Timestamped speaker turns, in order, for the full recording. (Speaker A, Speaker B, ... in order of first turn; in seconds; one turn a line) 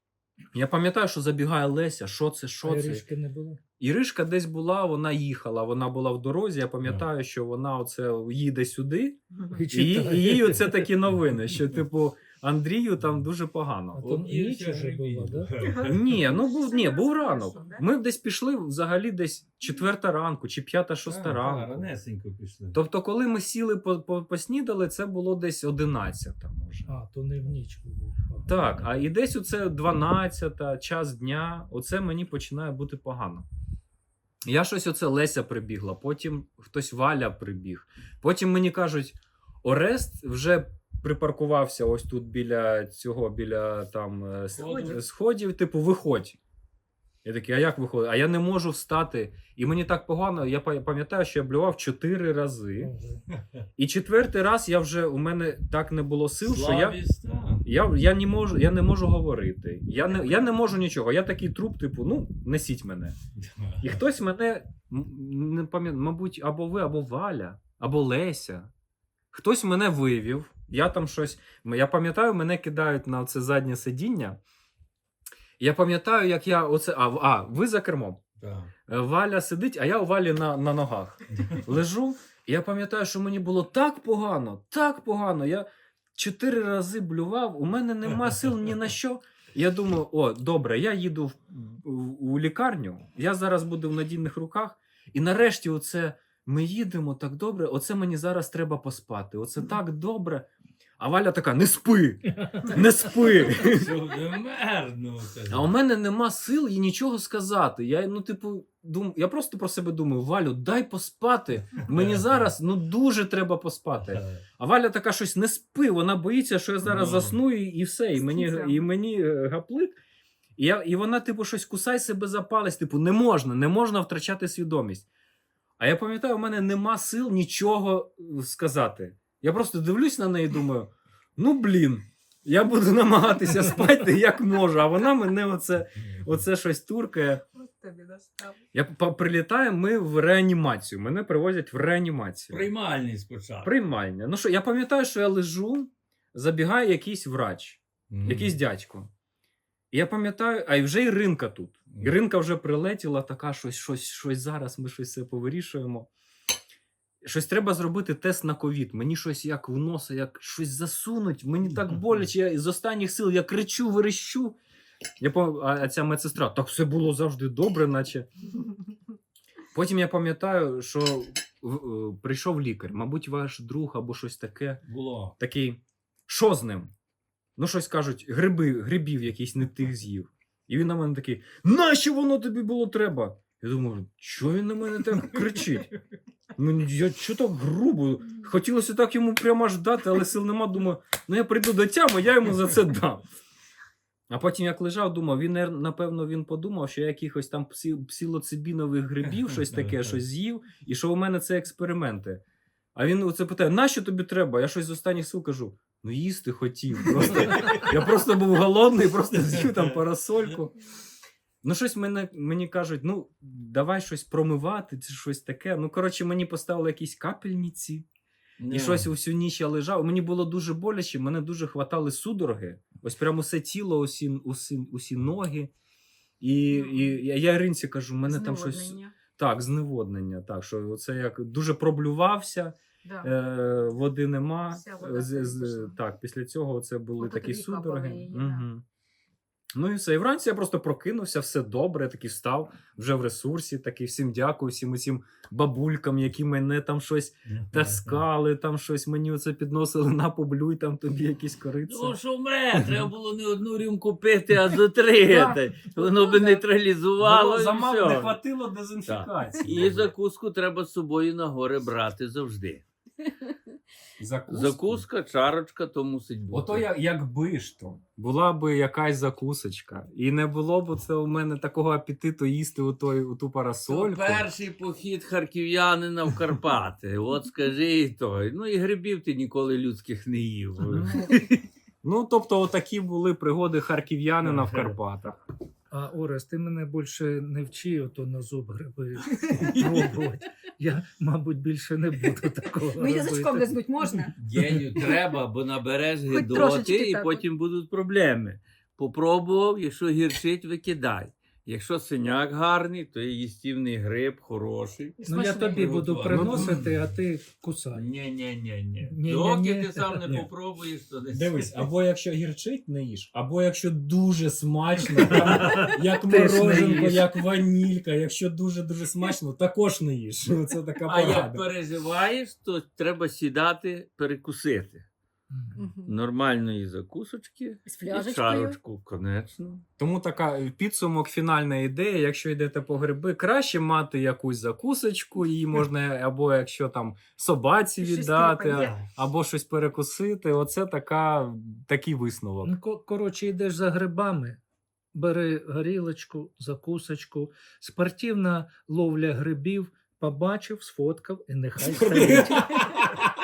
Speaker A: 0.5-3.0
Speaker B: 2.6-3.6
Speaker A: 3.8-9.2
Speaker C: 6.8-7.1
Speaker B: 9.5-10.8
Speaker A: 9.7-14.2
Speaker B: 13.9-15.5
Speaker C: 14.2-16.1
Speaker D: 15.6-17.8
Speaker A: 15.8-21.9
Speaker C: 21.0-22.8
Speaker A: 22.7-26.9
Speaker B: 26.9-28.6
Speaker A: 28.4-33.5
Speaker A: 34.4-46.4
Speaker C: 44.5-45.0
Speaker A: 47.2-52.9
Speaker B: 52.8-53.2
Speaker A: 53.8-57.0
Speaker C: 56.4-57.7
Speaker A: 57.6-63.1
Speaker C: 63.4-63.9
Speaker A: 63.8-68.7
Speaker A: 69.3-74.4
Speaker A: 75.6-78.2
Speaker C: 78.4-78.7
Speaker A: 78.9-100.5
Speaker A: 101.0-103.9
Speaker C: 103.6-105.7
Speaker A: 105.5-120.0
Speaker C: 111.9-112.5
Speaker C: 114.0-114.3
Speaker C: 116.8-117.4
Speaker D: 118.1-118.8
Speaker A: 120.6-125.0
Speaker A: 125.8-137.4
Speaker D: 137.6-138.6
Speaker A: 138.7-142.7
Speaker C: 142.5-143.7
Speaker A: 143.6-149.1
Speaker C: 148.1-148.5
Speaker A: 149.9-156.1
Speaker A: 157.2-164.6
Speaker A: 165.2-168.3
Speaker A: 169.7-174.8
Speaker C: 174.8-175.3
Speaker A: 175.4-176.9
Speaker A: 177.6-185.9
Speaker A: 186.6-193.2
Speaker A: 194.3-202.4
Speaker A: 202.9-210.7
Speaker A: 211.6-218.1
Speaker C: 218.6-219.1
Speaker A: 218.7-225.7
Speaker A: 226.4-238.8
Speaker D: 226.7-227.1
Speaker D: 228.2-229.1
Speaker D: 233.0-233.3
Speaker D: 234.7-235.9
Speaker D: 237.2-238.6
Speaker A: 239.7-252.2
Speaker C: 247.5-248.2
Speaker C: 251.9-258.4
Speaker A: 252.8-253.0
Speaker D: 256.1-256.4
Speaker A: 257.2-260.1
Speaker C: 259.0-262.8
Speaker A: 264.2-265.0
Speaker C: 264.5-266.9
Speaker A: 266.5-274.5
Speaker C: 273.8-281.4
Speaker A: 280.9-285.4
Speaker C: 284.4-284.9
Speaker B: 285.9-293.7
Speaker C: 289.6-289.9
Speaker D: 292.9-294.4
Speaker C: 294.4-307.0
Speaker D: 296.3-297.4
Speaker B: 305.2-308.0
Speaker D: 305.3-305.7
Speaker A: 306.3-306.8
Speaker C: 307.9-311.8
Speaker B: 309.0-310.3
Speaker A: 311.3-321.6
Speaker C: 315.2-315.9
Speaker B: 316.2-317.3
Speaker C: 321.0-325.1
Speaker B: 325.5-325.8
Speaker D: 325.7-326.1
Speaker C: 326.0-329.8
Speaker D: 327.9-328.8
Speaker A: 330.0-342.8
Speaker D: 338.0-339.0
Speaker C: 338.7-339.0
Speaker B: 342.6-344.6
Speaker B: 345.1-352.7
Speaker A: 351.8-353.1